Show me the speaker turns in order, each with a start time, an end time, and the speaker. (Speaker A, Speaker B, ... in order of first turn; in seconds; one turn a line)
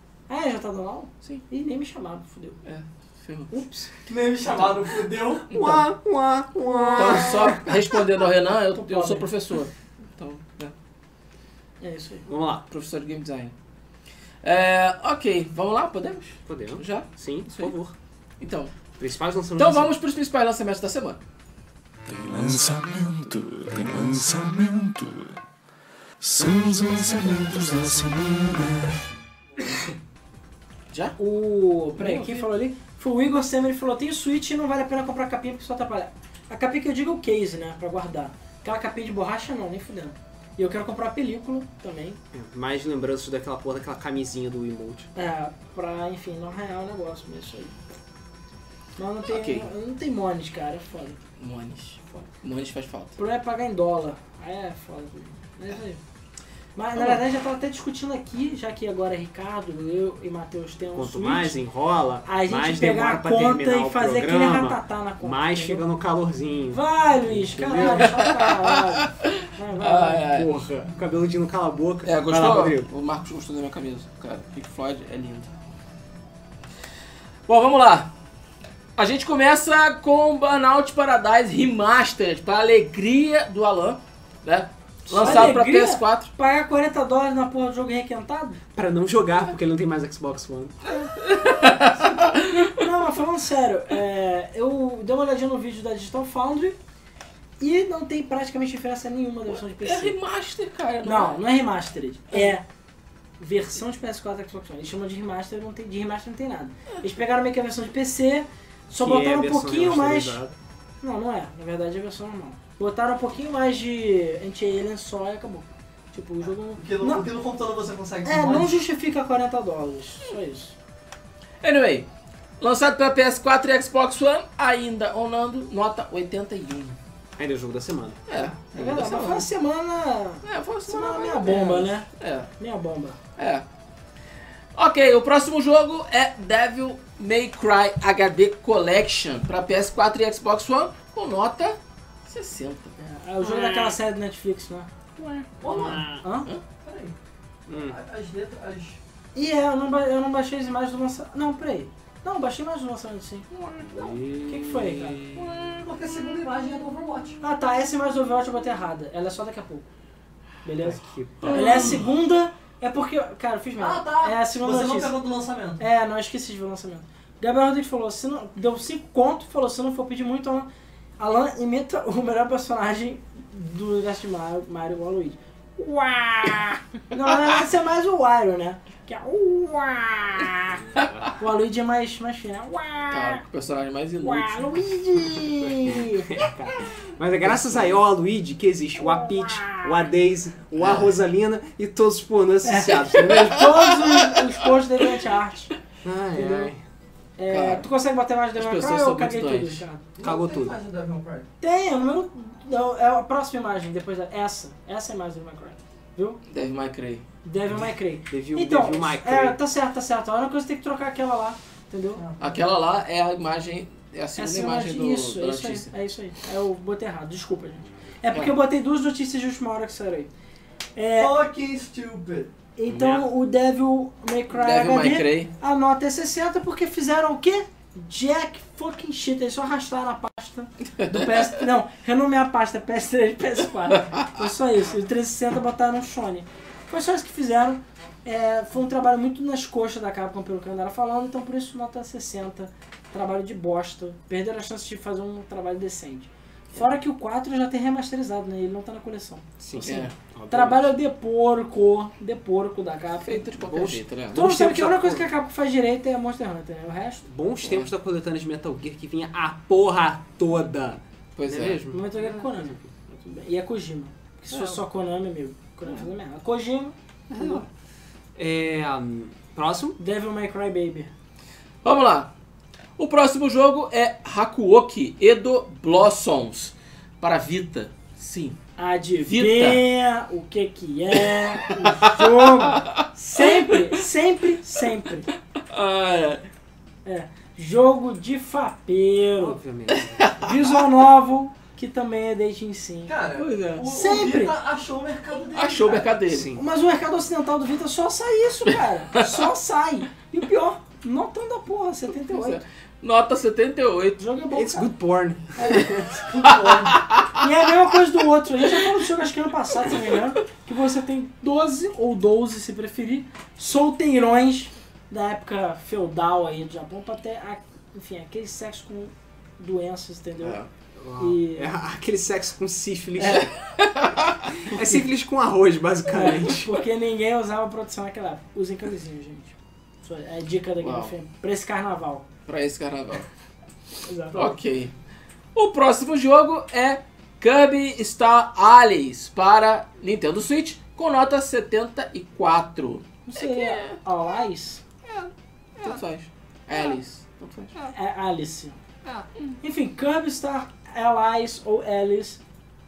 Speaker A: 0.3-2.6
Speaker B: 2.6-3.5
Speaker A: 3.6-5.0
Speaker C: 4.1-5.5
Speaker D: 5.5-7.7
Speaker B: 5.5-5.8
Speaker A: 6.6-7.7
Speaker B: 7.0-10.7
Speaker A: 8.7-9.3
Speaker A: 11.8-12.3
Speaker D: 12.3-12.6
Speaker B: 12.7-13.5
Speaker B: 14.4-17.7
Speaker D: 16.5-17.9
Speaker B: 18.4-18.7
Speaker D: 19.0-19.9
Speaker B: 19.6-21.2
Speaker E: 22.1-25.4
Speaker E: 26.2-28.9
Speaker B: 30.9-31.2
Speaker A: 31.2-42.2
Speaker B: 32.0-32.5
Speaker D: 42.3-45.1
Speaker A: 45.1-47.7
Speaker A: 49.0-51.2
Speaker B: 49.3-49.7
Speaker B: 51.4-53.2
Speaker A: 53.2-56.0
Speaker A: 56.8-61.6
Speaker D: 60.9-68.2
Speaker A: 62.2-65.8
Speaker A: 66.7-70.3
Speaker B: 67.8-70.5
Speaker D: 70.3-72.9
Speaker B: 72.0-75.5
Speaker B: 77.5-78.1
Speaker B: 79.0-86.3
Speaker A: 85.1-88.6
Speaker D: 85.2-85.5
Speaker D: 88.7-90.8
Speaker A: 90.9-96.8
Speaker B: 91.2-92.7
Speaker A: 97.6-100.2
Speaker B: 99.5-101.4
Speaker A: 101.0-102.6
Speaker A: 103.4-110.4
Speaker D: 109.0-110.6
Speaker A: 111.0-117.3
Speaker C: 116.7-118.8
Speaker A: 118.2-120.8
Speaker B: 121.6-122.1
Speaker B: 122.6-127.0
Speaker D: 127.4-128.2
Speaker B: 128.3-129.5
Speaker A: 128.7-132.1
Speaker B: 130.4-132.5
Speaker A: 132.6-133.2
Speaker B: 133.4-133.6
Speaker B: 134.8-142.9
Speaker A: 143.0-145.5
Speaker C: 143.4-144.0
Speaker C: 145.6-146.2
Speaker D: 145.7-146.2
Speaker A: 146.2-146.5
Speaker C: 146.8-147.2
Speaker D: 147.7-148.0
Speaker C: 147.7-149.0
Speaker A: 149.3-153.5
Speaker D: 153.9-155.4
Speaker A: 154.4-155.2
Speaker C: 155.3-157.4
Speaker A: 157.4-159.9
Speaker A: 160.6-165.1
Speaker D: 160.8-162.0
Speaker C: 161.5-161.8
Speaker C: 163.8-165.8
Speaker A: 165.8-180.9
Speaker A: 181.4-183.4
Speaker B: 183.1-184.8
Speaker A: 184.2-186.5
Speaker D: 185.6-193.9
Speaker B: 187.4-188.0
Speaker A: 189.0-190.0
Speaker B: 190.8-191.1
Speaker A: 192.6-195.7
Speaker D: 196.0-196.8
Speaker A: 196.3-196.7
Speaker A: 197.4-200.0
Speaker B: 197.5-197.9
Speaker B: 198.6-199.8
Speaker C: 200.2-201.5
Speaker D: 200.2-200.8
Speaker A: 201.6-206.4
Speaker B: 206.5-207.2
Speaker A: 207.4-212.2
Speaker D: 208.3-209.6
Speaker C: 212.2-212.6
Speaker B: 212.4-215.9
Speaker A: 214.4-220.3
Speaker A: 221.0-221.4
Speaker C: 221.1-222.5
Speaker A: 222.8-253.5
Speaker B: 222.9-223.2
Speaker B: 224.5-225.5
Speaker B: 233.9-234.3
Speaker D: 249.6-250.9
Speaker B: 249.8-250.1
Speaker B: 253.2-255.2
Speaker D: 253.6-255.1
Speaker A: 254.3-257.3
Speaker D: 257.3-262.6
Speaker B: 257.6-257.9
Speaker B: 261.4-261.8
Speaker A: 261.9-267.6
Speaker D: 264.5-264.8
Speaker D: 267.3-267.7
Speaker D: 268.4-270.0
Speaker A: 270.0-271.1
Speaker B: 271.8-272.3
Speaker B: 273.0-278.6
Speaker A: 278.8-285.3
Speaker B: 279.2-279.8
Speaker B: 281.6-283.8
Speaker B: 285.7-286.4
Speaker A: 287.1-289.6
Speaker D: 289.4-290.4
Speaker B: 290.2-290.6
Speaker A: 290.4-293.2
Speaker C: 293.1-296.2
Speaker B: 293.4-293.9
Speaker A: 293.9-294.6
Speaker B: 295.6-296.5
Speaker D: 296.3-296.6
Speaker A: 296.5-302.6
Speaker B: 299.1-299.4
Speaker B: 302.3-304.2
Speaker A: 304.2-304.9
Speaker D: 304.5-305.9
Speaker A: 305.6-320.6
Speaker B: 306.6-307.3
Speaker B: 320.4-320.7
Speaker D: 321.0-323.5
Speaker A: 321.2-321.7
Speaker A: 323.2-323.5
Speaker B: 323.8-324.6
Speaker D: 324.6-326.8
Speaker A: 326.1-332.3
Speaker B: 330.8-331.1
Speaker B: 332.5-333.3
Speaker A: 334.1-334.6
Speaker B: 334.3-334.9
Speaker B: 335.6-344.0
Speaker A: 343.3-344.8
Speaker B: 345.8-347.7
Speaker A: 347.9-348.8
Speaker A: 349.6-352.4